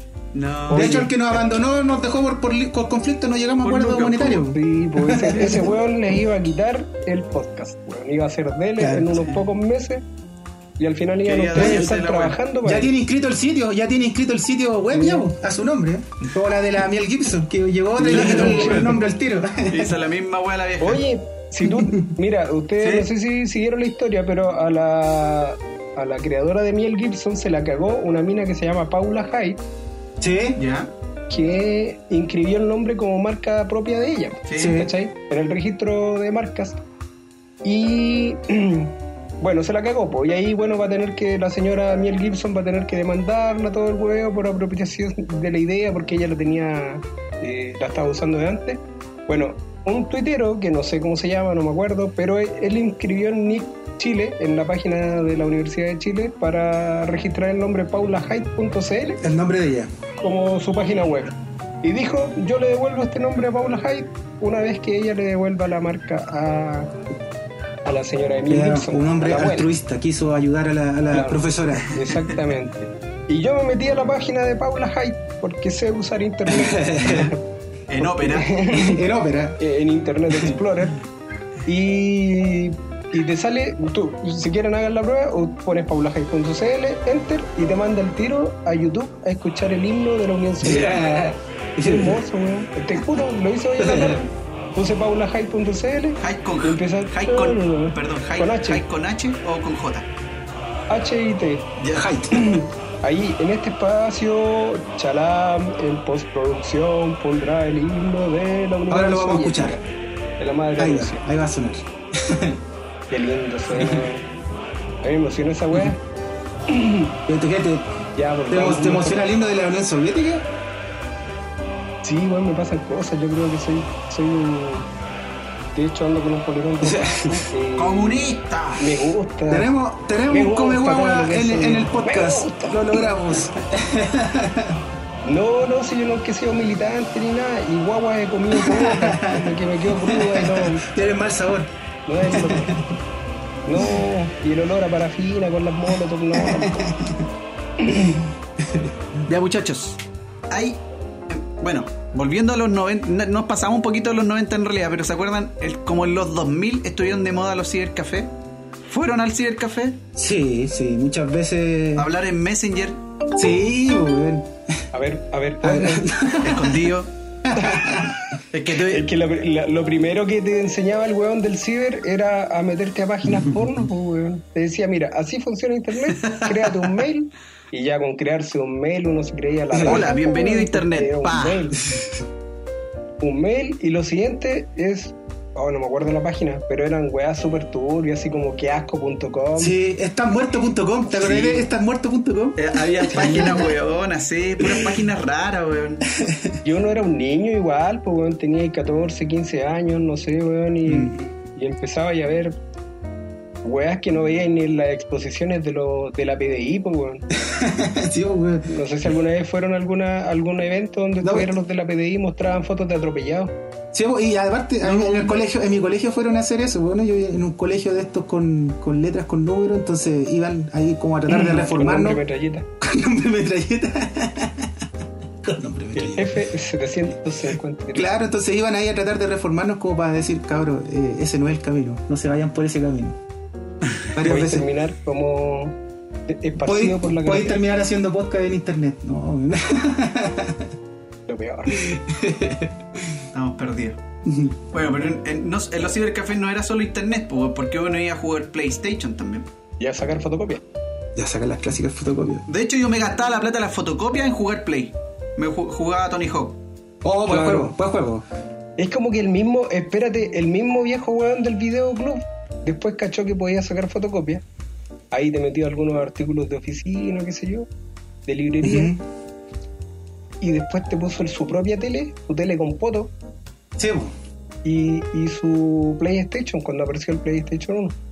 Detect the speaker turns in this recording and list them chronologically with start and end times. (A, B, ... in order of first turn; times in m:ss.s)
0:00.3-0:01.2 A
0:00.7-0:01.1 B
0:00.7-0:05.8 C
0:03.6-0:04.5 A
0:04.5-0:10.0 B
0:08.8-0:09.2 C
0:10.8-0:12.9 B
0:11.2-0:12.4 A
0:11.6-0:11.8 C
0:12.6-0:20.0 C
0:14.9-0:15.3 B
0:18.0-0:19.0 B
0:18.1-0:19.0 A
0:19.7-0:21.0 A
0:20.8-0:29.6 B
0:21.6-0:22.1 C
0:22.8-0:23.1 A
0:30.2-0:30.6 C
0:30.6-0:30.9 A
0:31.3-0:36.8 B
0:34.5-0:34.8 A
0:34.6-0:34.9 C
0:37.6-0:59.2 B
0:59.2-0:59.9 C
1:00.2-1:06.9 B
1:07.8-1:09.7 B
1:08.5-1:12.0 C
1:11.1-1:17.3 B
1:16.5-1:17.3 C
1:17.0-1:17.4 A
1:17.9-1:18.6 A
1:18.0-1:19.0 B
1:18.7-1:19.6 C
1:19.6-1:21.0 B
1:21.7-1:31.1 B
1:30.6-1:32.2 C
1:31.8-1:38.8 B
1:33.8-1:34.2 C
1:36.2-1:40.1 A
1:40.9-1:41.7 B
1:41.8-1:42.1 A
1:41.9-1:42.6 C
1:42.3-1:49.8 B
1:48.9-1:49.8 C
1:50.4-1:51.2 B
1:50.8-1:52.6 C
1:53.1-1:54.2 B
1:53.8-1:54.0 C
1:55.0-1:56.0 B
1:56.7-1:57.2 B
1:57.3-1:57.9 C
1:58.2-1:59.2 B
1:58.5-2:00.5 C
2:02.0-2:04.9 B
2:05.8-2:08.2 B
2:06.8-2:07.4 C
2:07.8-2:08.9 A
2:08.8-2:09.7 B
2:09.5-2:14.8 C
2:10.3-2:13.1 B
2:15.2-2:20.8 B
2:18.5-2:23.0 C
2:22.1-2:22.7 B
2:23.7-2:26.9 B
2:26.3-2:27.3 C
2:27.8-2:28.2 B
2:28.6-2:29.0 C
2:29.2-2:30.8 A
2:31.3-2:38.3 A
2:38.9-2:40.0 A
2:40.2-2:42.1 C
2:42.0-2:43.0 A
2:43.4-2:44.8 C
2:44.9-2:46.1 B
2:45.6-2:46.9 C
2:46.4-2:47.1 A
2:47.4-2:48.2 C
2:48.5-2:49.1 A
2:48.9-3:01.8 B
2:56.2-2:56.8 A
2:59.7-3:00.1 C
2:59.8-3:01.6 A
3:03.2-3:09.8 B
3:09.6-3:13.7 C
3:11.1-3:11.6 A
3:12.6-3:16.1 A
3:14.6-3:15.0 C
3:16.2-3:16.5 C
3:16.6-3:22.6 B
3:23.6-3:27.2 B
3:27.4-3:28.7 C
3:28.7-3:33.5 B
3:31.2-3:31.5 C
3:33.9-3:42.2 C
3:34.9-3:35.3 A
3:41.3-3:42.7 B
3:42.8-3:44.9 C
3:45.4-3:46.4 C
3:46.0-3:48.1 B
3:47.9-3:53.2 C
3:54.1-3:54.7 C
3:54.2-3:57.6 B
3:56.6-4:00.7 C
4:01.3-4:01.8 B
4:01.7-4:03.2 C
4:03.3-4:04.0 A
4:04.3-4:04.6 C
4:04.7-4:09.5 A
4:09.8-4:10.6 B
4:11.2-4:12.4 C
4:12.5-4:16.6 A
4:17.0-4:18.2 C
4:17.3-4:17.7 B
4:18.8-4:24.4 B
4:25.1-4:27.7 B
4:28.3-4:29.0 B
4:28.6-4:29.0 C
4:30.4-4:33.1 B
4:33.8-4:34.1 C
4:34.6-4:38.0 B